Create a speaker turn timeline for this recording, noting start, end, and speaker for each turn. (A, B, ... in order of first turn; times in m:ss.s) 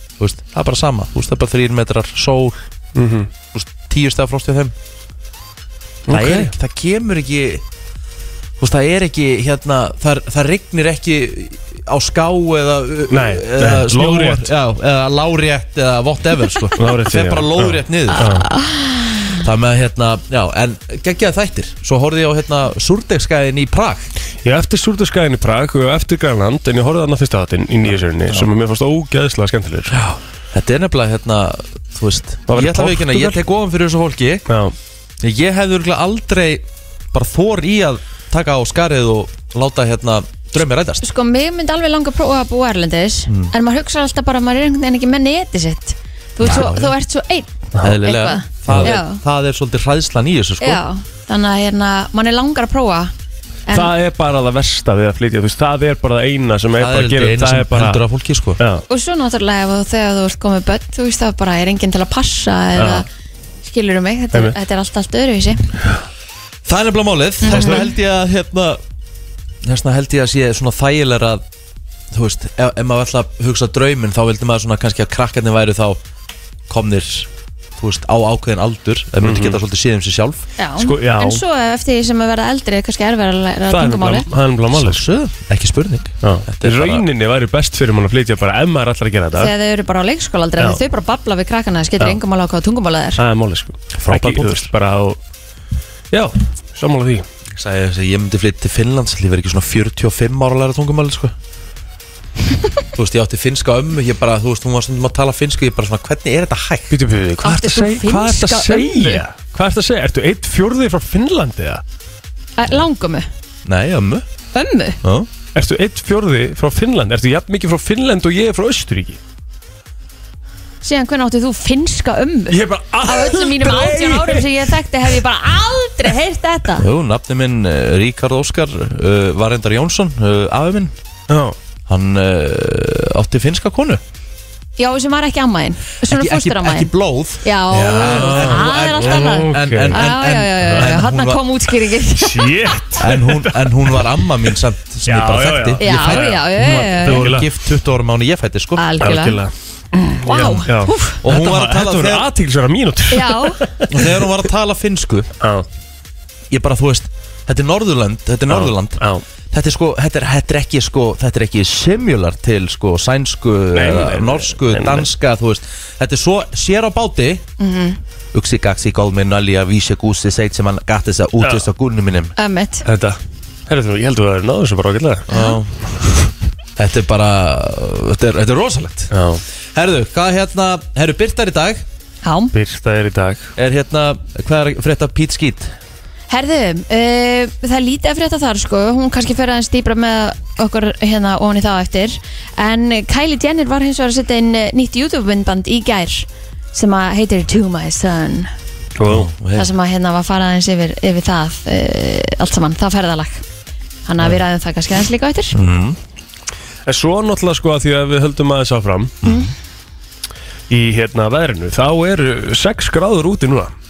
0:00.2-0:02.6 A
0:03.0-0:03.3 B
0:03.5-0:04.7 A
0:06.1-0:06.5 B
0:06.1-0:07.6 A
0:08.6-0:18.4 A
0:13.1-0:14.5 B
0:16.8-0:18.5 B
0:18.1-0:19.4 C
0:19.4-0:24.1 A
0:24.4-0:30.0 B
0:29.9-0:34.4 A
0:32.5-0:33.4 B
0:34.5-0:34.8 B
0:35.2-0:41.0 A
0:41.0-0:49.2 C
0:43.3-0:43.5 A
0:46.4-0:46.9 A
0:47.8-0:50.8 A
0:48.6-0:49.0 B
0:50.6-0:53.1 C
0:53.7-0:58.0 B
0:56.8-0:58.6 A
0:58.6-0:58.8 B
0:58.9-1:03.1 C
1:02.8-1:03.0 B
1:03.6-1:05.6 C
1:06.7-1:08.8 A
1:07.4-1:07.9 C
1:07.5-1:07.8 B
1:09.6-1:11.4 A
1:12.1-1:16.0 A
1:16.7-1:20.4 A
1:19.2-1:19.6 B
1:20.6-1:24.3 C
1:20.8-1:21.4 B
1:23.7-1:25.0 B
1:24.7-1:27.0 A
1:26.2-1:29.5 B
1:29.3-1:33.2 C
1:33.2-1:35.2 B
1:34.0-1:34.7 A
1:36.1-1:37.3 B
1:37.5-1:41.3 A
1:42.9-1:47.0 A
1:46.9-1:51.8 B
1:47.4-1:49.2 C
1:52.6-1:53.3 C
1:53.6-1:54.3 A
1:54.5-1:55.0 C
1:55.0-1:55.3 A
1:55.6-1:59.2 B
2:00.8-2:06.9 C
2:02.5-2:04.8 B
2:06.8-2:11.0 A
2:11.3-2:11.6 B
2:11.9-2:14.0 A
2:14.8-2:16.9 C
2:16.0-2:21.4 A
2:17.4-2:22.8 C
2:17.8-2:20.1 B
2:20.7-2:21.0 B
2:22.2-2:23.5 B
2:23.0-2:28.9 A
2:25.1-2:27.5 B
2:25.8-2:27.3 C
2:28.8-2:29.4 C
2:29.0-2:29.5 B
2:30.1-2:34.3 B
2:30.1-2:31.2 C
2:31.2-2:32.3 A
2:33.1-2:33.6 C
2:33.9-2:35.3 A
2:35.4-2:35.7 B
2:36.5-2:39.0 A
2:38.5-2:39.2 B
2:39.5-2:47.4 A
2:43.7-2:45.1 B
2:47.6-2:48.0 C
2:48.3-2:52.3 A
2:51.4-2:51.7 B
2:52.4-2:52.8 C
2:52.8-2:55.3 B
2:55.3-2:55.6 C
2:55.3-2:55.9 A
2:56.8-2:59.1 A
2:59.1-2:59.4 B
2:59.8-3:01.8 A
3:02.2-3:02.5 C
3:02.5-3:03.5 B
3:03.6-3:05.7 A
3:06.3-3:18.5 C
3:19.0-3:19.3 B
3:19.1-3:19.7 A
3:19.6-3:23.4 C
3:24.1-3:25.6 C
3:25.5-3:26.0 A
3:26.9-3:29.2 B
3:29.2-3:29.5 A
3:29.2-3:29.5 C
3:30.7-3:33.7 B